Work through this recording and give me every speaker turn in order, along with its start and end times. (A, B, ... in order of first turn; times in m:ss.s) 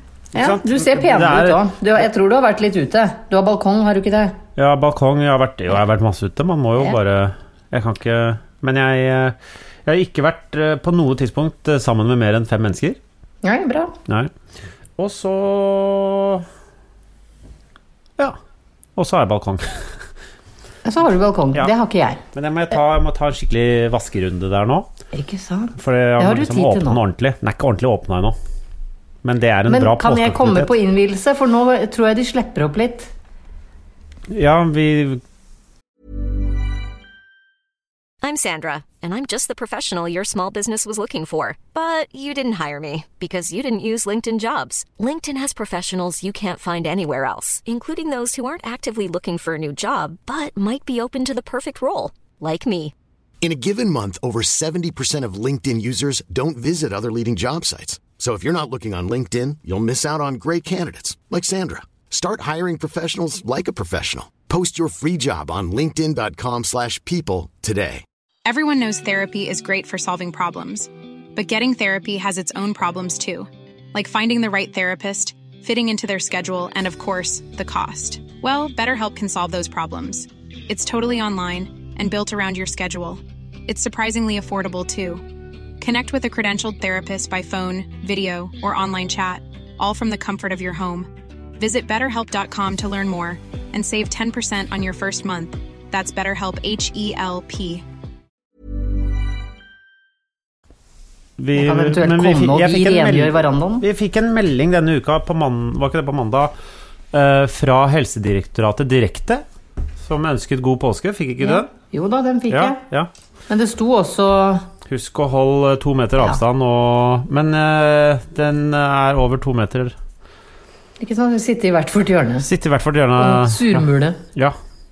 0:00.3-0:01.6 A
0:00.3-0:04.4 B
0:04.6-0:13.0 A
0:13.4-0:13.9 B
0:15.0-0:16.4 A
0:19.0-0:20.0 A
0:20.8-0:22.2 B
0:22.3-0:24.9 A
0:25.1-0:27.0 B
0:25.8-0:28.4 A
0:29.2-0:30.7 A
0:29.7-0:33.1 B
0:34.3-0:35.2 A
0:38.2-0:52.9 C
0:53.4-1:08.0 D
1:08.4-1:25.2 E
1:25.8-1:31.1 E
1:31.6-1:37.8 E
1:41.4-1:46.5 A
1:41.6-1:43.8 B
1:47.1-1:49.4 A
1:50.0-1:51.7 A
1:51.4-1:52.8 B
1:52.5-1:53.1 A
1:53.5-1:54.7 B
1:54.8-1:59.9 A
2:01.0-2:02.5 B
2:02.4-2:04.6 A
2:03.2-2:04.2 B